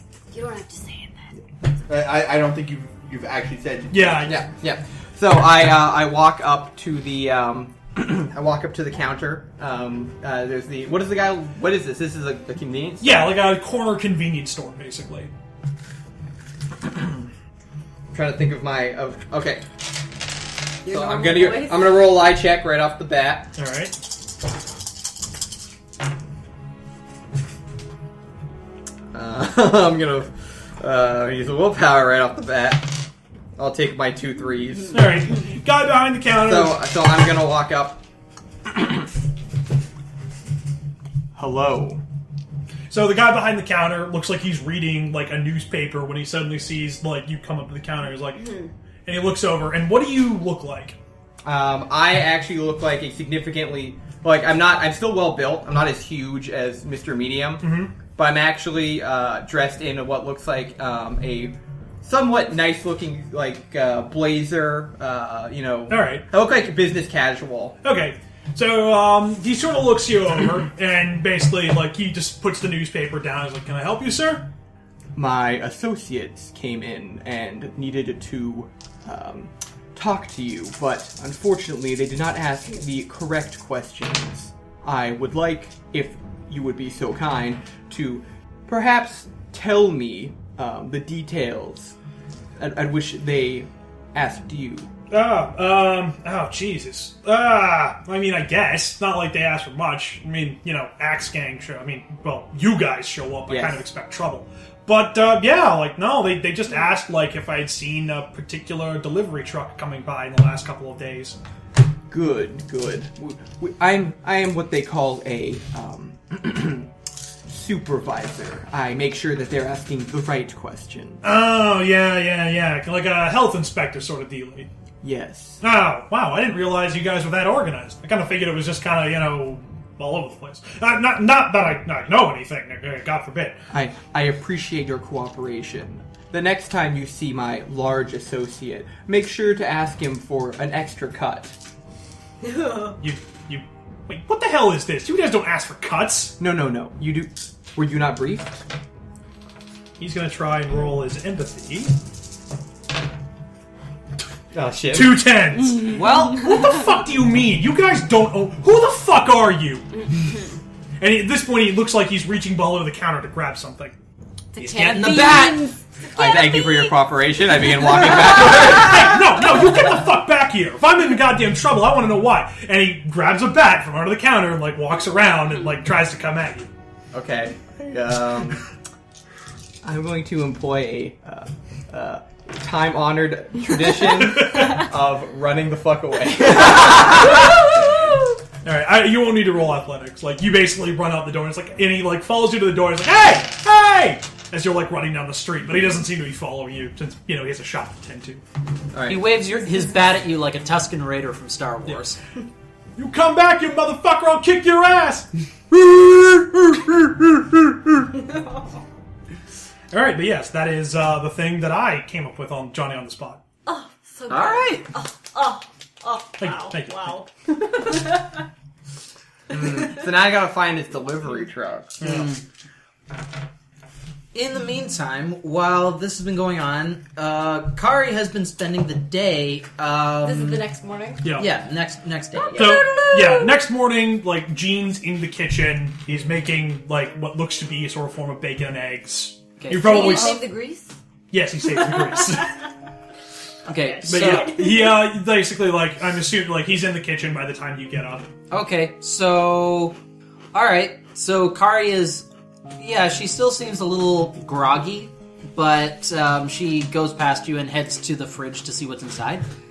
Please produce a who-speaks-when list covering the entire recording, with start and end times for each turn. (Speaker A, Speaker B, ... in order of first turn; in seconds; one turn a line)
Speaker A: 0.3-1.3
Speaker B: 1.9-4.2
Speaker C: 3.9-4.4
Speaker D: 4.2-13.3
Speaker C: 13.0-15.3
Speaker D: 18.1-19.8
Speaker D: 20.8-23.5
Speaker A: 20.8-22.2
Speaker C: 23.6-23.9
Speaker D: 29.1-35.1
Speaker C: 34.9-36.8
Speaker D: 36.3-38.0
Speaker D: 38.7-39.0
Speaker D: 41.4-42.0
Speaker C: 42.9-51.0
Speaker A: 48.4-48.7
Speaker D: 51.4-67.8
Speaker C: 57.6-57.9
Speaker C: 65.9-66.2
Speaker C: 67.8-74.5
Speaker D: 75.1-91.9
Speaker D: 92.6-94.9
Speaker C: 95.1-111.4
Speaker D: 103.5-103.8
Speaker D: 112.1-116.9
Speaker D: 117.5-121.2
Speaker C: 121.2-124.7
Speaker D: 125.0-125.6
Speaker C: 125.6-133.6
Speaker D: 133.7-141.5
Speaker A: 142.4-142.9
Speaker C: 143.0-146.4
Speaker D: 146.4-148.6
Speaker C: 150.0-151.9
Speaker D: 154.5-155.4
Speaker C: 154.9-160.1
Speaker A: 155.7-156.2
Speaker E: 155.8-156.4
Speaker C: 161.0-163.9
Speaker A: 164.5-167.1
Speaker E: 164.6-165.7
Speaker D: 164.9-165.6
Speaker D: 166.1-169.1
Speaker A: 167.9-168.3
Speaker C: 168.4-176.7
Speaker D: 177.1-178.6
Speaker D: 179.8-187.6
Speaker C: 184.1-184.9
Speaker C: 188.6-198.4
Speaker D: 198.9-199.3
Speaker E: 199.1-202.2
Speaker C: 203.0-208.1
Speaker C: 209.9-213.4
Speaker A: 213.7-218.3
Speaker E: 214.3-214.8
Speaker C: 216.4-217.2
Speaker D: 219.5-222.0
Speaker C: 222.0-222.3
Speaker E: 222.0-222.4
Speaker E: 224.3-230.7
Speaker A: 230.2-231.3
Speaker C: 231.2-231.5
Speaker E: 231.3-232.9
Speaker A: 232.3-233.6
Speaker C: 232.5-240.4
Speaker E: 239.6-240.4
Speaker A: 239.7-240.9
Speaker C: 241.3-242.5
Speaker A: 241.7-242.4
Speaker E: 243.7-244.6
Speaker A: 243.7-245.1
Speaker C: 244.1-248.3
Speaker E: 248.5-249.9
Speaker E: 250.5-252.3
Speaker E: 252.8-259.4